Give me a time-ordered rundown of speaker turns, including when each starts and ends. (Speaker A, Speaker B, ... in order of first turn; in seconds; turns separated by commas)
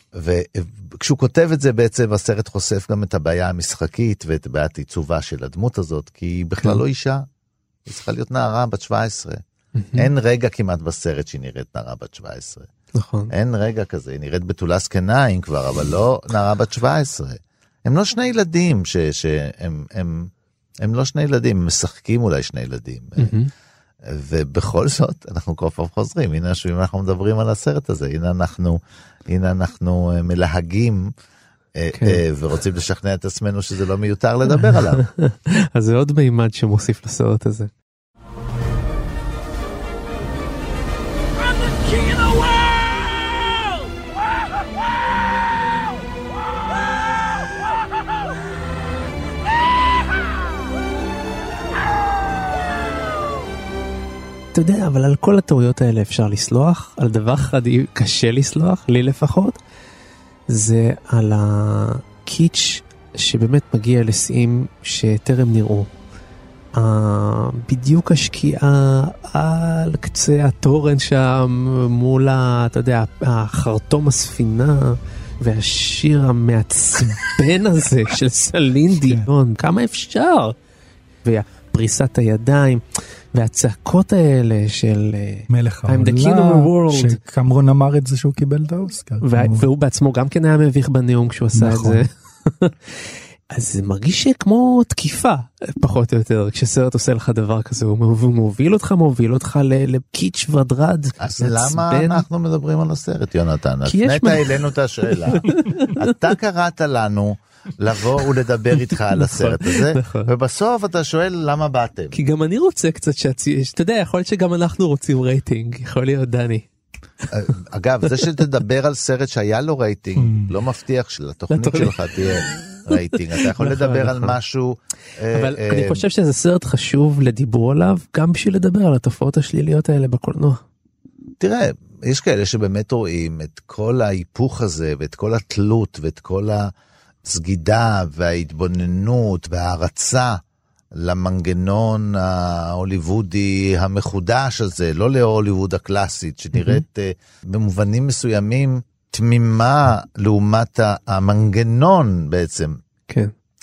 Speaker A: 0.1-7.3, Speaker A: 7.9-9.4, Speaker B: 9.8-10.1, Speaker A: 10.0-12.7, Speaker B: 13.0-13.3, Speaker A: 13.3-23.4, Speaker B: 23.2-23.5, Speaker A: 24.1-31.1, Speaker A: 31.8-35.0, Speaker B: 31.9-32.2, Speaker B: 34.5-37.7, Speaker B: 54.5-59.6, Speaker B: 60.5-65.9, Speaker B: 66.8-80.5, Speaker B: 81.2-82.8, Speaker B: 83.3-87.2, Speaker C: 85.5-89.7, Speaker B: 89.2-92.9, Speaker C: 91.5-92.0, Speaker B: 93.5-102.2, Speaker A: 101.2-112.2, Speaker B: 103.9-104.5, Speaker B: 105.1-106.0, Speaker B: 109.2-110.3, Speaker B: 112.1-116.7, Speaker A: 117.3-126.0, Speaker C: 120.2-120.5, Speaker B: 121.5-122.0, Speaker B: 122.8-124.4, Speaker B: 125.3-130.6, Speaker A: 131.4-136.7, Speaker A: 137.3-140.4, Speaker A: 141.0-152.8, Speaker B: 146.6-146.8